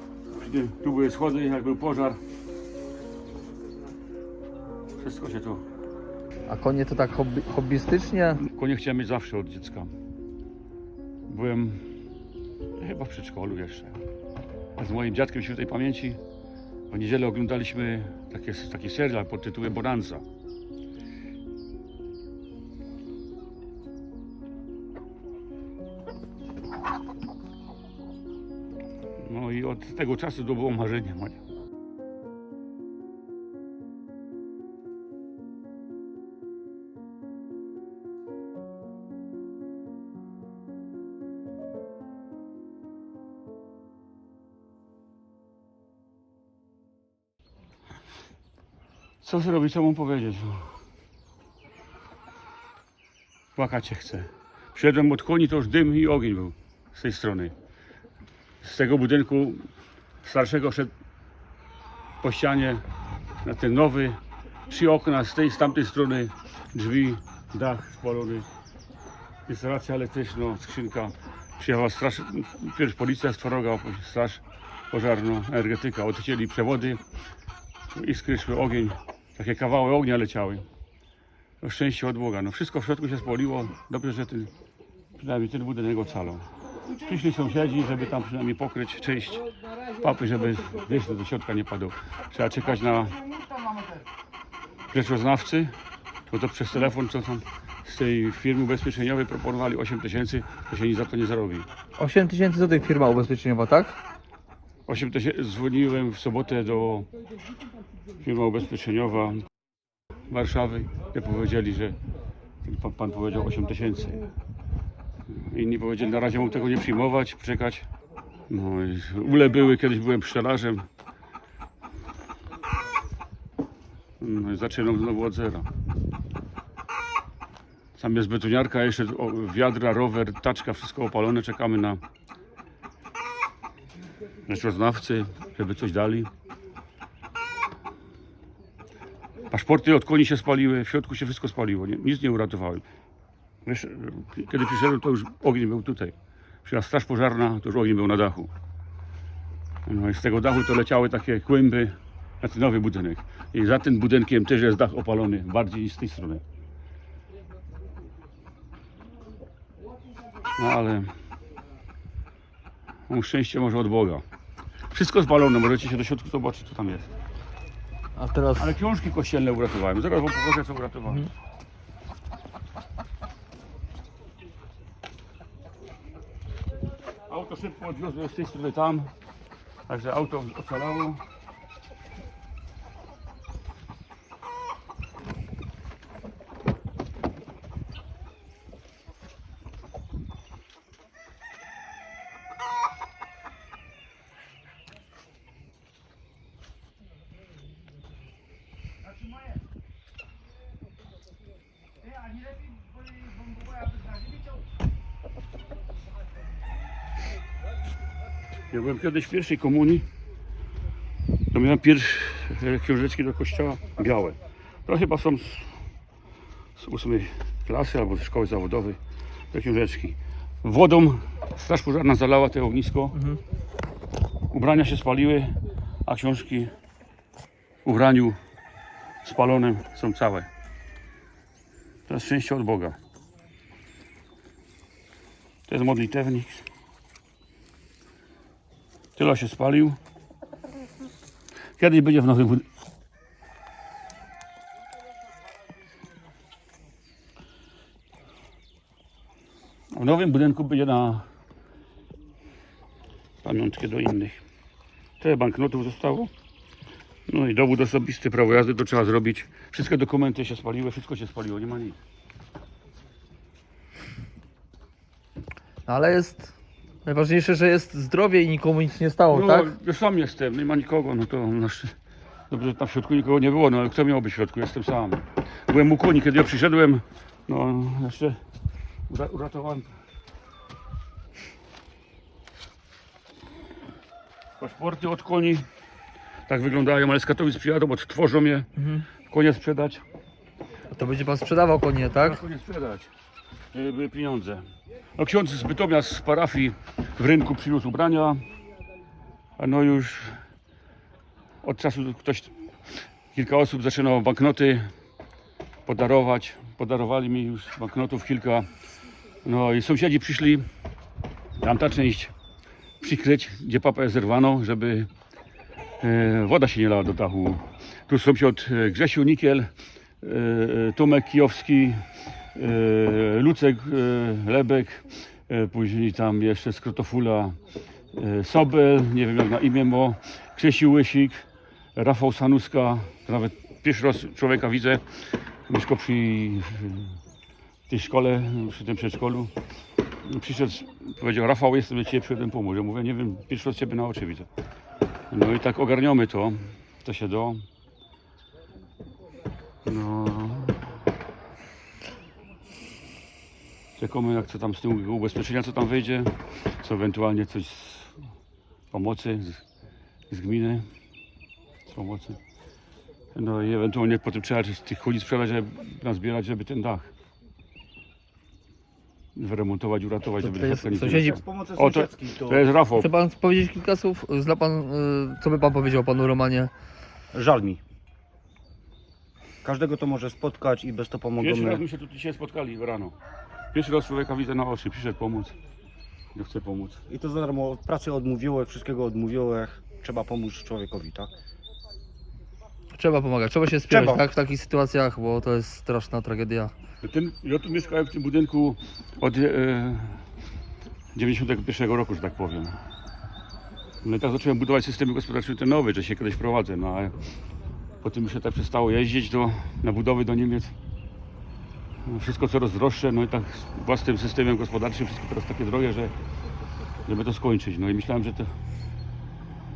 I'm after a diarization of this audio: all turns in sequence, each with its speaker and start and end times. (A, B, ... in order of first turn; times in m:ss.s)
0:00.3-0:02.2 A
0:05.0-0:05.6 A
0:06.5-0:08.4 B
0:08.4-0:09.9 A
0:11.3-0:11.9 A
0:12.8-0:14.0 A
0:14.8-0:16.2 A
0:16.9-0:20.2 A
0:29.2-0:31.4 A
0:49.2-0:50.7 A
0:53.6-0:57.5 A
0:58.6-0:59.7 A
1:00.2-1:00.9 A
1:02.2-1:02.9 A
1:03.4-1:08.5 A
1:09.5-1:17.0 A
1:17.9-1:20.7 A
1:21.6-1:24.5 A
1:25.2-1:33.2 A
1:34.9-1:35.7 A
1:36.3-1:41.7 A
1:42.0-1:44.0 B
1:44.9-1:47.1 A
1:48.2-1:49.5 A
1:50.3-1:52.0 A
1:52.6-1:54.3 A
1:55.3-1:57.9 A
1:58.5-2:00.9 A
2:04.2-2:05.7 A
2:08.0-2:12.0 A
2:14.5-2:16.3 A
2:19.5-2:22.8 A
2:23.6-2:28.5 A
2:29.9-2:36.4 A
2:40.6-2:41.1 A
2:43.1-2:44.2 A
2:44.9-2:47.1 A
2:48.2-2:48.7 B
2:48.6-2:51.3 A
2:57.3-2:59.1 A
2:59.9-3:01.2 A
3:28.7-3:30.1 A
3:31.5-3:35.8 A
3:36.8-3:39.0 A
3:39.5-3:43.2 A
3:44.5-3:46.7 A
3:47.8-3:48.4 A
3:49.2-3:50.5 A
3:52.1-3:53.0 A
3:55.7-3:56.6 A
3:59.2-4:00.0 A
4:01.8-4:02.7 A
4:09.9-4:11.3 A
4:13.4-4:14.4 A
4:15.2-4:16.3 A
4:17.3-4:22.0 A
4:25.9-4:26.5 B
4:27.0-4:29.7 B
4:29.3-4:31.9 A
4:32.5-4:38.4 A
4:39.1-4:39.9 A
4:44.6-4:45.7 A
4:46.5-4:48.7 A
4:48.8-4:49.0 B
4:49.2-4:50.0 A
4:50.9-4:52.4 B
4:52.2-4:53.1 A
4:53.7-4:58.4 A
4:59.6-5:00.4 A
5:01.6-5:02.5 A
5:03.3-5:04.9 A
5:05.9-5:08.7 A
5:09.4-5:10.7 A
5:11.6-5:12.3 A
5:13.0-5:15.1 A
5:16.0-5:19.7 A
5:20.2-5:27.6 A
5:28.1-5:37.2 A
5:37.9-5:39.5 A
5:40.2-5:44.5 A
5:45.3-5:47.6 A
5:49.8-5:50.8 A
5:54.0-5:58.2 A
5:58.9-5:59.6 A
6:00.3-6:00.9 A
6:01.9-6:02.4 A
6:03.4-6:07.1 A
6:09.4-6:13.1 A
6:10.4-6:11.4 B
6:11.1-6:12.6 C
6:13.0-6:16.7 B
6:17.3-6:17.8 C
6:19.6-6:21.8 C
6:21.4-6:23.2 A
6:23.7-6:25.6 A
6:26.4-6:27.0 A
6:27.1-6:31.3 C
6:33.0-6:36.7 B
6:33.9-6:34.2 C
6:37.0-6:40.2 A
6:41.1-6:42.8 A
6:44.0-6:47.2 A
6:48.0-6:50.7 A
6:52.1-6:56.2 A
6:57.0-6:58.6 A